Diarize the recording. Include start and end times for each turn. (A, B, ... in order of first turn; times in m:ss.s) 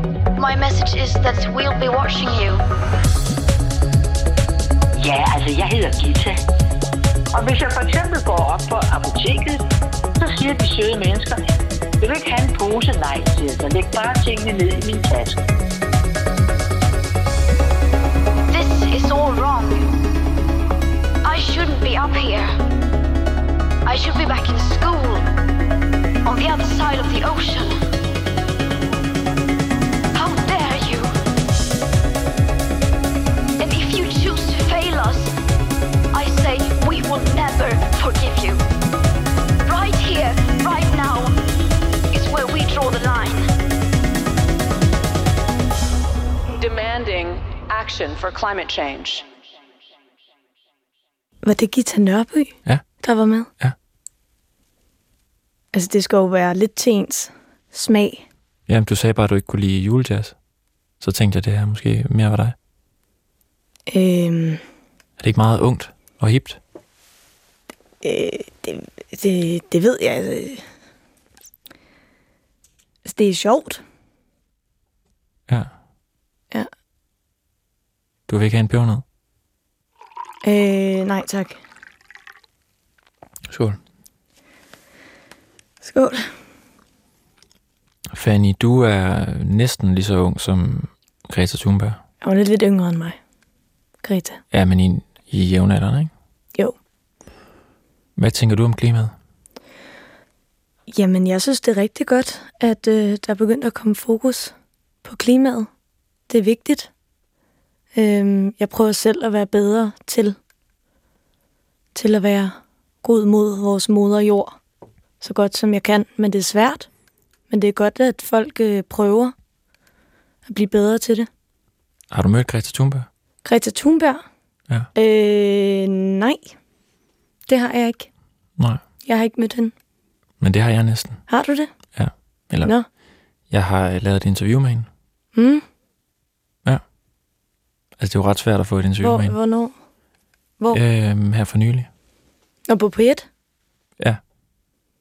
0:00.4-0:02.6 A
0:05.0-0:06.4 B
0:07.3-0:09.6 B
0:10.2-0:11.4 B
0:12.0-0:15.4 B
0:18.5-0:19.8 A
0:21.2-0:22.5 A
0:23.8-0:25.2 A
0:26.2-0:27.7 A
0:30.1-0:31.1 A
0:33.6-0:35.3 A
0:36.1-0:38.6 A
0:39.6-0:41.4 A
0:42.1-0:43.4 A
0:46.6-0:49.2 C
0:51.4-0:53.5 D
0:55.7-0:58.2 D
0:58.7-1:00.3 E
1:01.0-1:02.5 E
1:03.9-1:04.6 D
1:05.2-1:06.6 E
1:08.0-1:10.6 D
1:13.0-1:13.8 D
1:18.3-1:19.0 E
1:20.4-1:21.6 D
1:23.5-1:23.8 E
1:25.8-1:26.3 D
1:28.1-1:32.0 E
1:32.2-1:33.2 D
1:34.0-1:34.4 D
1:34.5-1:36.1 E
1:38.2-1:39.1 E
1:40.9-1:44.5 D
1:45.0-1:45.7 D
1:46.3-1:46.9 D
1:47.9-1:50.4 D
1:51.9-1:54.6 D
1:55.2-1:56.9 D
1:57.5-1:59.3 D
2:00.5-2:01.3 D
2:02.1-2:03.1 E
2:03.4-2:04.2 D
2:04.9-2:06.5 D
2:07.5-2:08.1 D
2:09.0-2:09.7 D
2:10.4-2:11.2 E
2:11.3-2:11.7 D
2:11.9-2:12.7 E
2:13.5-2:14.9 E
2:15.3-2:15.6 D
2:18.0-2:19.4 E
2:19.0-2:19.7 D
2:20.7-2:21.9 E
2:22.7-2:23.3 D